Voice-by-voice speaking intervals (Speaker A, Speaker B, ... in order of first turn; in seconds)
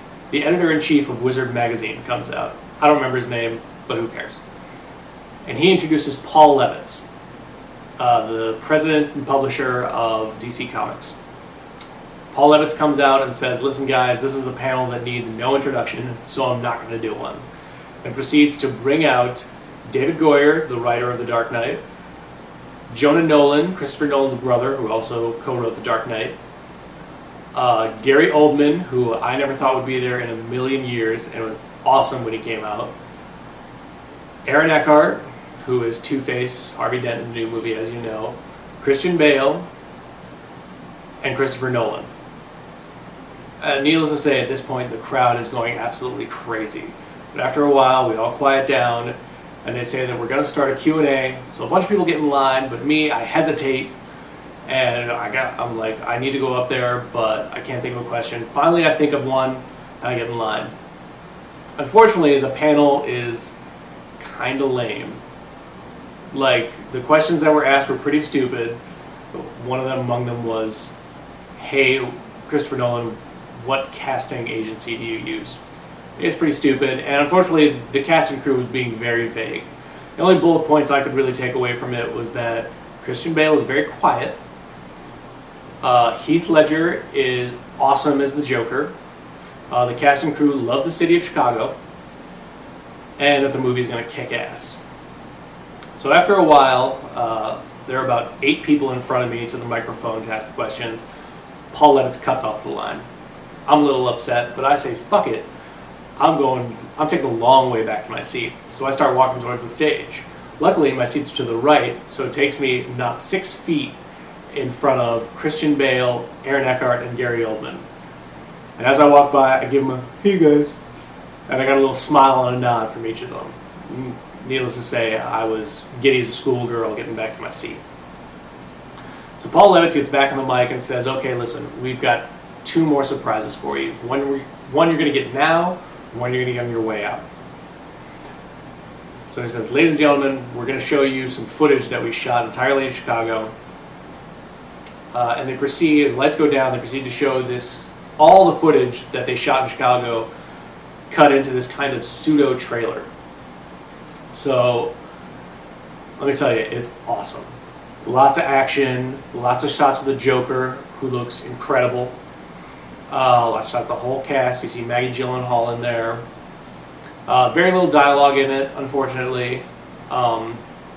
Speaker A: 0.3-4.4, 5.5-7.0, 8.0-11.2, 12.3-17.4, 18.0-21.8, 22.9-26.4, 27.5-33.0, 34.5-39.7, 41.2-42.1, 43.6-54.0, 54.6-60.7, 61.8-63.5, 64.2-65.2, 66.3-68.8, 69.3-70.9, 71.6-75.6, 76.2-84.4, 85.8-89.0, 89.7-91.8, 93.2-94.8, 96.0-101.0, 101.7-103.1, 103.7-105.5, 106.2-114.0, 114.5-117.9, 118.8-120.8, 121.5-127.8, 129.4-137.2, 139.3-143.5, 145.1-150.3, 151.1-153.1, 154.3-155.0, 156.2-157.5, 158.0-162.2, 163.1-166.2, 167.3-170.6